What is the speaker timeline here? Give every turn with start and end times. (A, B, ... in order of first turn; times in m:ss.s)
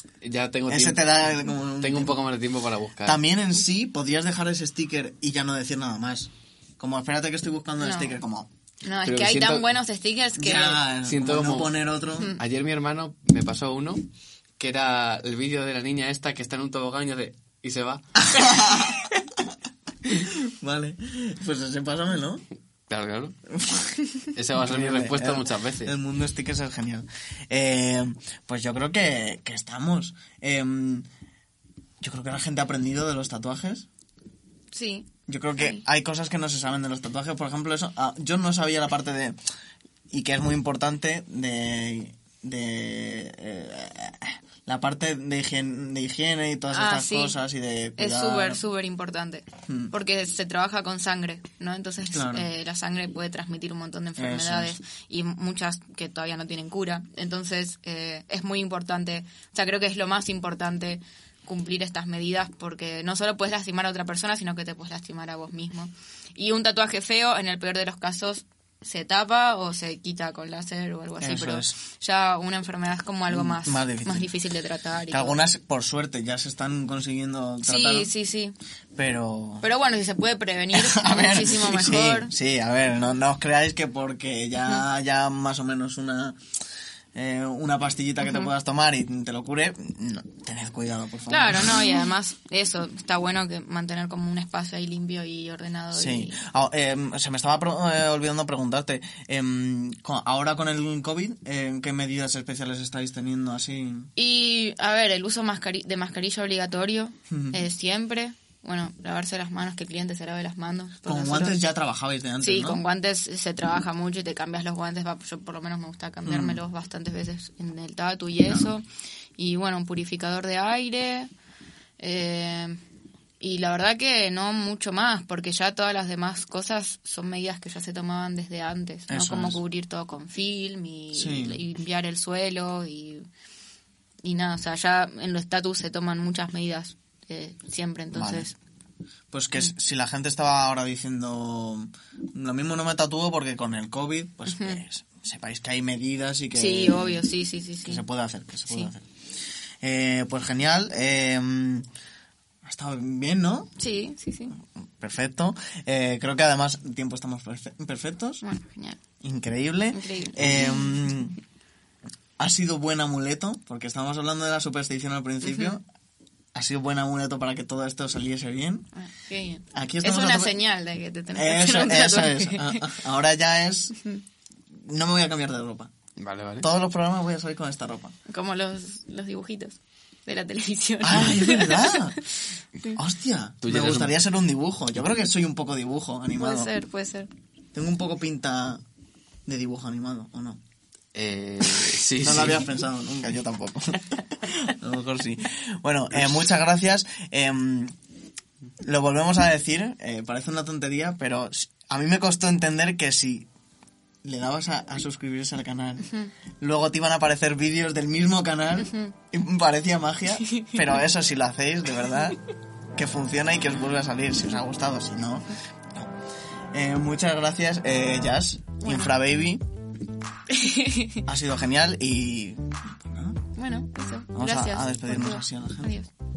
0:00.2-0:03.2 A
0:00.7-0:02.2 B
0:03.0-0:08.5 B
0:07.8-0:08.2 C
0:08.8-0:10.8 C
0:09.0-0:09.8 A
0:10.4-0:12.4 B
0:11.0-0:14.0 A
0:14.6-0:18.5 A
0:18.2-0:19.1 B
0:20.1-0:22.4 B
0:22.9-0:23.4 A
0:23.5-0:24.0 B
0:24.3-0:25.9 A
0:24.5-0:31.1 B
0:32.0-0:33.9 B
0:34.7-0:35.8 C
0:35.3-0:39.4 B
0:40.1-0:48.6 B
0:46.7-0:47.4 C
0:48.0-1:15.4 C
0:49.7-0:49.9 B
0:52.1-0:52.5 B
0:54.2-0:54.8 B
1:11.2-1:11.8 B
1:13.3-1:14.3 B
1:15.1-1:18.1 B
1:17.6-1:18.5 C
1:18.9-1:19.7 B
1:19.6-1:22.3 C
1:20.7-1:26.4 B
1:27.1-1:32.1 B
1:31.3-1:36.4 C
1:35.9-1:44.1 B
1:44.2-1:51.6 C
1:47.3-1:47.6 B
1:51.0-1:52.8 B
1:52.4-1:58.8 C
1:56.2-1:56.6 B
1:59.4-2:01.3 C
2:02.0-2:02.8 C
2:03.4-2:13.2 C
2:09.1-2:09.6 B
2:11.1-2:11.6 B
2:14.2-2:18.5 C
2:18.1-2:18.5 B
2:19.3-2:27.2 B
2:24.5-2:24.8 C
2:26.5-2:28.0 C
2:27.8-2:29.1 B
2:29.8-2:31.8 B
2:32.6-2:33.7 B
2:33.8-2:34.6 C
2:35.0-2:38.4 B
2:38.4-2:39.0 C
2:39.2-2:41.4 B
2:39.9-2:40.9 C
2:42.4-2:45.8 B
2:45.4-2:45.7 C
2:46.5-2:48.9 B
2:48.9-2:52.9 C
2:49.7-2:50.6 B
2:51.3-2:54.0 B
2:54.7-2:55.9 B
2:56.2-2:56.7 A
2:56.6-2:58.1 B
2:58.3-3:02.0 C
3:01.0-3:02.2 B
3:03.0-3:06.7 B
3:03.6-3:04.1 A
3:06.4-3:07.3 C
3:07.7-3:08.8 B
3:09.4-3:10.6 B
3:11.1-3:12.7 A
3:12.2-3:17.9 B
3:18.8-3:23.5 B
3:24.2-3:32.4 B
3:28.8-3:29.1 C
3:30.5-3:30.8 C
3:33.0-3:36.1 B
3:36.7-3:39.6 B
3:38.8-3:39.1 C
3:40.5-3:41.2 C
3:41.2-3:43.4 B
3:43.5-3:46.1 C
3:44.3-3:45.9 B